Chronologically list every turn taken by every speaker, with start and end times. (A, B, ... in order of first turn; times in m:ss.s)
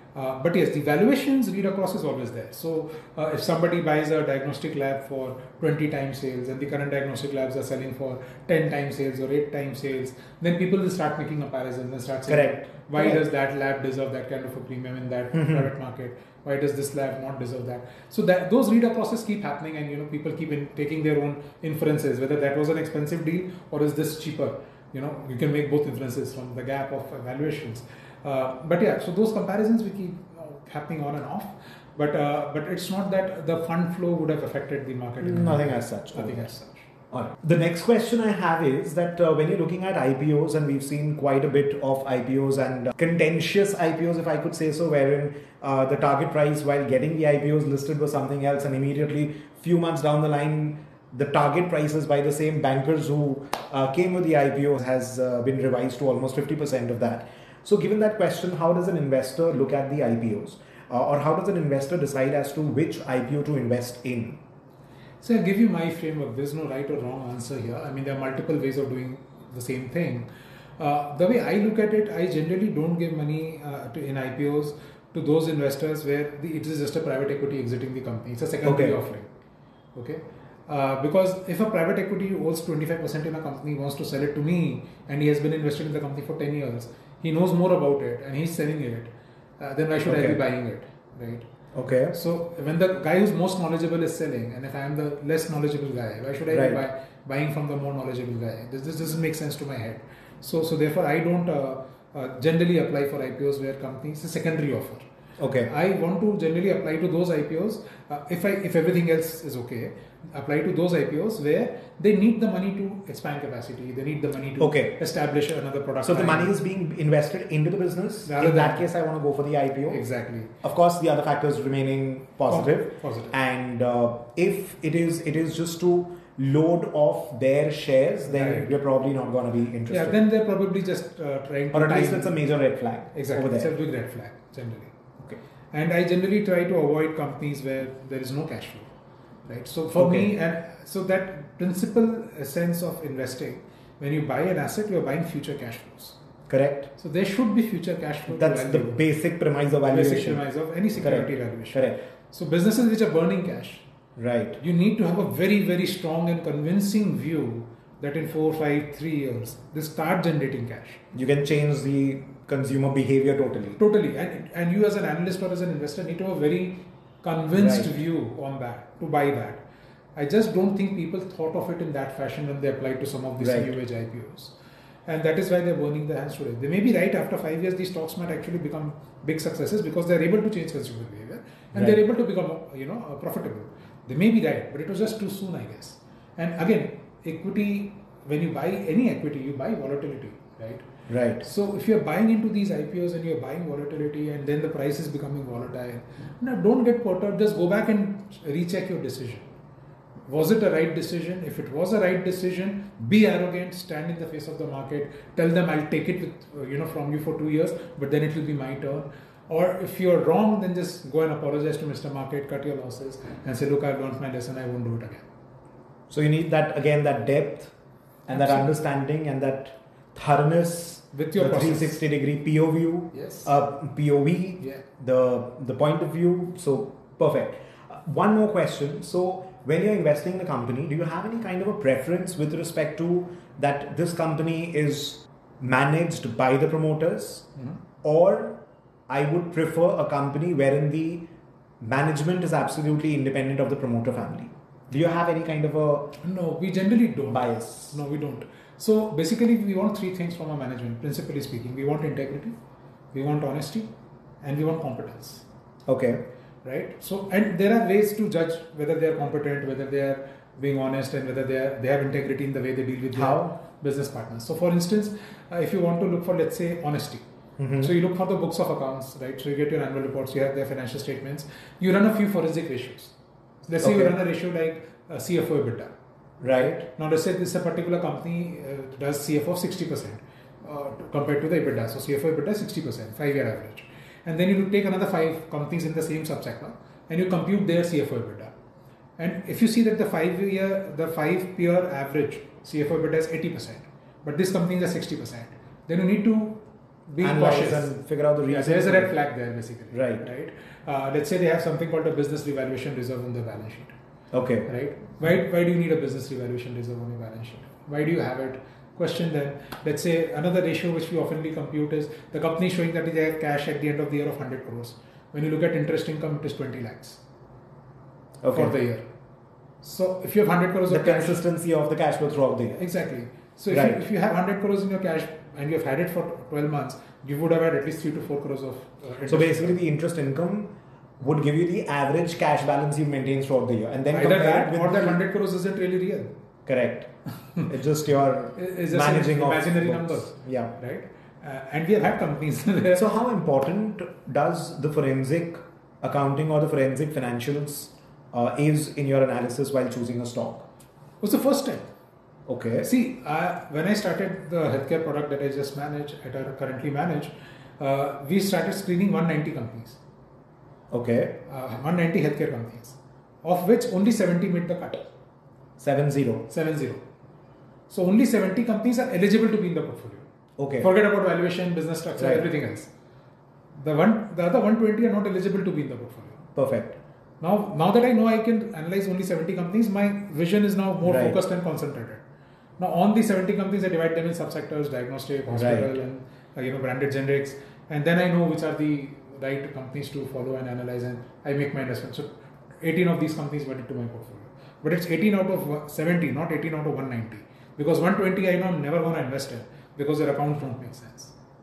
0:00.2-0:36.9 A
0:12.3-0:13.2 B
0:15.3-0:15.7 B
0:35.2-0:36.5 B
0:37.1-1:04.4 B
1:05.2-1:10.3 A
1:10.8-1:19.3 A
1:18.6-1:19.0 B
1:20.0-1:31.4 A
1:30.0-1:30.4 B
1:31.7-1:32.2 B
1:32.1-1:45.0 A
1:36.5-1:36.8 B
1:45.4-1:45.7 B
1:45.7-1:56.6 A
1:54.6-1:55.0 B
1:56.0-2:00.0 B
1:58.2-1:58.9 A
1:59.9-2:00.5 A
2:00.6-2:10.2 B
2:02.5-2:03.3 A
2:08.3-2:08.8 A
2:09.9-2:12.4 A
2:11.7-2:13.7 B
2:13.1-2:15.0 A
2:15.7-2:18.9 A
2:19.5-2:26.2 A
2:19.9-2:20.3 B
2:26.5-2:26.9 B
2:27.0-2:29.0 A
2:28.3-2:30.4 B
2:29.8-2:33.9 A
2:31.0-2:32.0 B
2:34.2-2:34.6 B
2:34.6-2:41.0 A
2:41.1-2:43.8 B
2:43.8-2:49.6 A
2:47.6-2:48.0 B
2:50.2-2:54.6 A
2:53.4-2:53.7 B
2:55.1-3:10.8 A
3:11.1-3:11.4 B
3:11.4-3:19.5 A
3:20.3-3:35.2 A
3:36.1-3:37.7 B
3:38.3-3:38.8 A
3:38.3-3:57.5 B
3:41.1-3:42.0 A
3:43.1-3:43.5 A
3:58.0-4:01.3 B
4:01.8-4:06.2 B
4:06.2-4:12.6 A
4:07.3-4:08.0 B
4:13.1-4:13.9 A
4:14.4-4:15.4 A
4:15.9-4:16.2 B
4:16.6-4:27.2 A
4:23.2-4:23.5 B
4:27.6-4:27.9 B
4:27.8-4:33.1 A
4:33.7-4:35.9 A
4:33.8-4:34.2 B
4:36.4-4:36.9 B
4:37.0-4:48.5 A
4:49.2-4:58.0 A
4:57.2-4:59.2 B
4:58.5-5:03.9 A
4:59.9-5:00.3 B
5:04.3-5:04.7 B
5:04.7-5:17.2 A
5:18.4-5:18.8 B
5:18.5-5:19.0 A
5:19.8-5:21.4 A
5:20.9-5:22.8 B
5:22.8-5:29.8 A
5:23.7-5:24.0 B
5:29.3-5:35.2 B
5:34.1-5:36.3 A
5:36.7-5:37.1 B
5:37.6-5:40.8 B
5:38.6-5:43.1 A
5:42.9-5:50.7 B
5:51.2-5:51.9 A
5:52.5-5:52.9 B
5:52.8-6:00.0 A
6:00.9-6:01.4 B
6:01.5-6:05.0 A
6:05.8-6:06.5 B
6:06.5-6:07.0 A
6:07.9-6:10.3 A
6:10.6-6:10.9 B
6:10.8-6:12.9 A
6:12.2-6:12.5 B
6:13.8-6:16.5 A
6:16.6-6:17.0 B
6:17.4-6:22.2 A
6:21.0-6:21.4 B
6:22.8-6:32.3 A
6:25.5-6:25.9 B
6:32.8-6:41.3 A